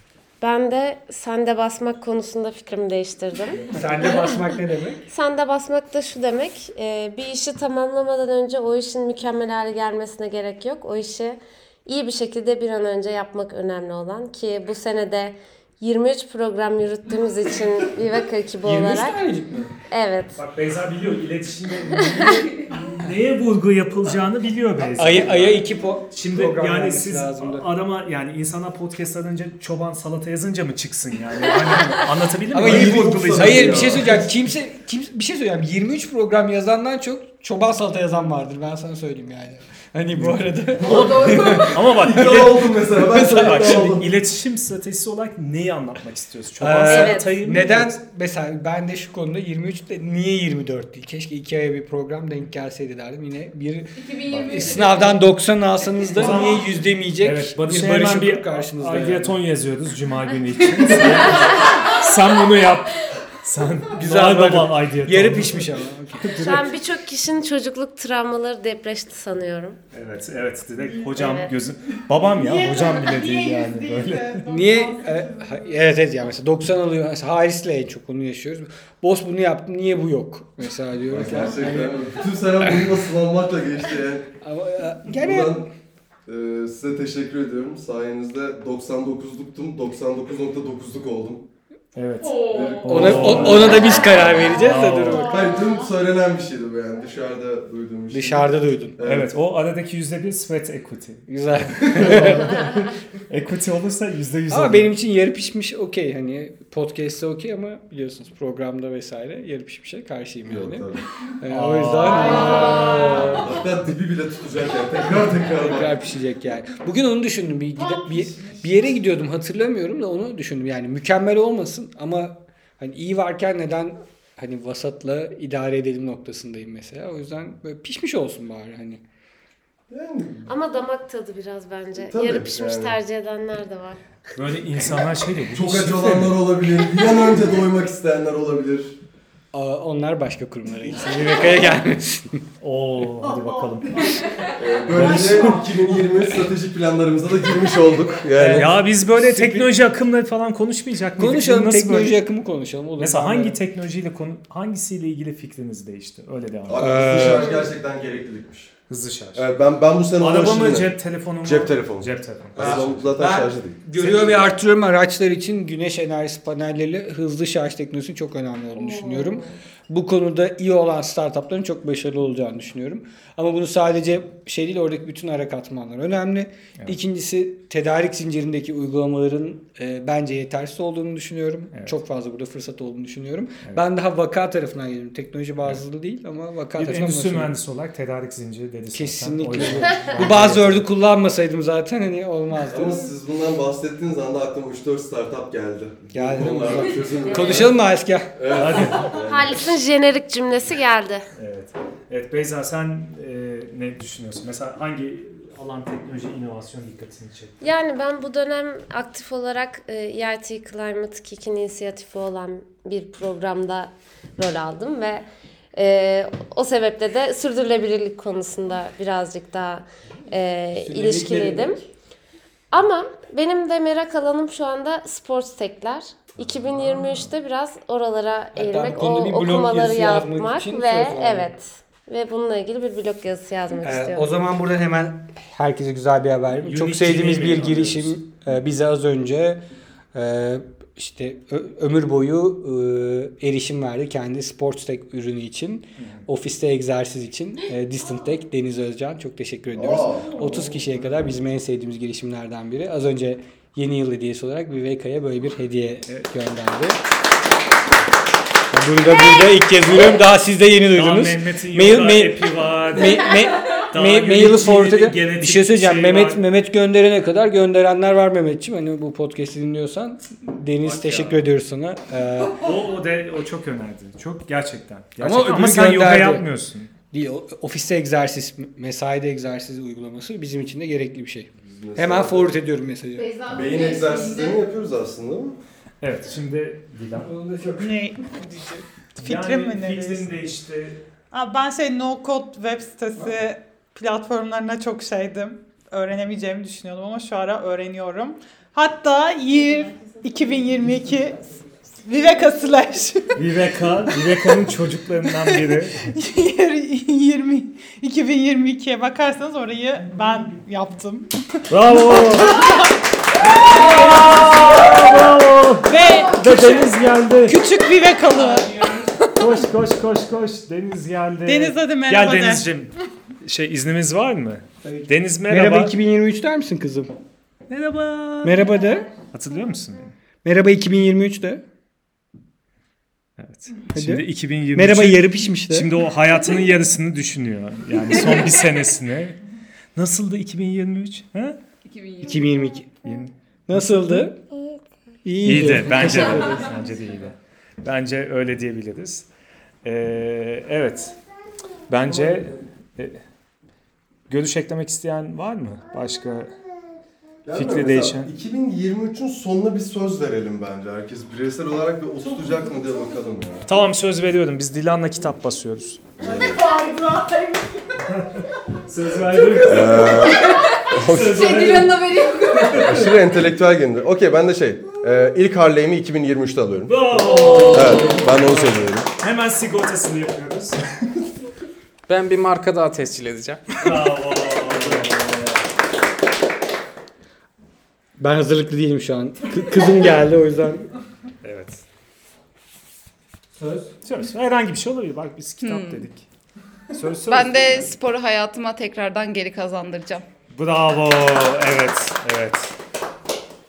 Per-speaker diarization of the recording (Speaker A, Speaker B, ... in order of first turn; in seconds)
Speaker A: 0.4-3.7, 5.1-19.1, 19.9-20.3, 46.9-47.3, 66.4-69.8, 71.2-71.5, 130.5-134.0, 168.8-169.6, 197.3-197.7, 199.1-201.2, 207.6-221.8, 222.7-234.3, 344.6-344.8
Speaker B: 3.5-5.0, 18.6-19.7, 24.8-27.7, 32.5-41.8, 42.9-44.0, 46.6-59.4, 63.9-66.3, 74.5-82.8, 84.4-85.7, 92.9-95.4, 98.1-99.0, 101.3-102.6, 104.5-110.9, 111.4-113.4, 115.5-129.0, 139.5-142.4, 148.3-149.7, 151.2-153.6, 156.8-157.7, 162.6-187.5, 188.9-193.1, 196.1-198.3, 220.8-221.7, 228.6-231.5, 233.8-239.6, 240.1-257.0, 258.7-272.6, 275.2-276.5, 277.1-283.3, 287.2-287.9, 324.8-327.1, 328.4-329.1, 330.4-331.6, 333.9-335.9, 342.2-342.9, 343.7-344.4, 345.2-346.7, 352.1-352.4, 388.2-390.9, 393.6-393.9
Speaker C: 20.4-34.2, 40.2-42.7, 43.3-48.0, 54.3-54.8, 56.1-66.7, 69.9-74.4, 92.0-95.3, 99.0-104.9, 111.5-113.4, 134.4-136.4, 142.6-144.2, 144.9-145.5, 148.5-152.2, 153.0-157.2, 158.9-159.4, 160.2-163.1, 164.0-164.4, 186.8-190.9, 198.5-199.1, 201.4-207.7, 226.7-227.3, 236.6-238.2, 246.0-246.3, 260.9-263.3, 263.9-266.4, 270.8-271.4, 272.6-276.9, 286.0-287.3, 289.1-291.0, 303.4-306.1, 311.7-312.6, 313.5-317.6, 319.3-322.9, 323.4-326.0, 327.7-328.7, 329.3-330.1, 333.4-339.4, 339.9-341.6, 343.0-344.3, 345.4-349.3, 349.8-351.1, 351.9-353.2, 354.3-356.5, 357.5-358.3, 363.6-366.1, 368.0-373.1, 376.9-380.8, 383.8-385.6, 391.4-391.9, 394.0-396.3, 396.9-397.9, 400.5-402.7
Speaker D: 32.6-34.3, 40.8-44.1, 81.1-84.3, 85.1-85.7, 86.3-91.5, 92.5-93.9, 95.2-99.3, 110.5-111.0, 113.3-115.9, 129.9-130.5, 132.0-133.0, 135.5-138.9, 144.6-148.8, 156.7-158.7, 159.3-163.8, 192.7-197.8, 198.3-199.6, 249.7-250.5, 281.6-282.6, 283.5-285.6, 357.4-363.7, 366.2-366.6, 369.6-371.6, 372.7-379.1
Speaker E: 54.0-55.2, 92.2-92.8, 283.2-284.6, 341.9-342.5, 371.9-372.6, 377.4-377.7, 395.6-396.1, 397.3-400.2
Speaker F: 72.3-75.6, 287.8-290.3, 291.3-301.5, 302.0-303.4, 305.4-311.3, 312.3-312.9, 313.7-314.7, 315.9-316.9, 317.5-319.0, 321.4-322.7, 366.3-367.8
Speaker G: 382.1-384.1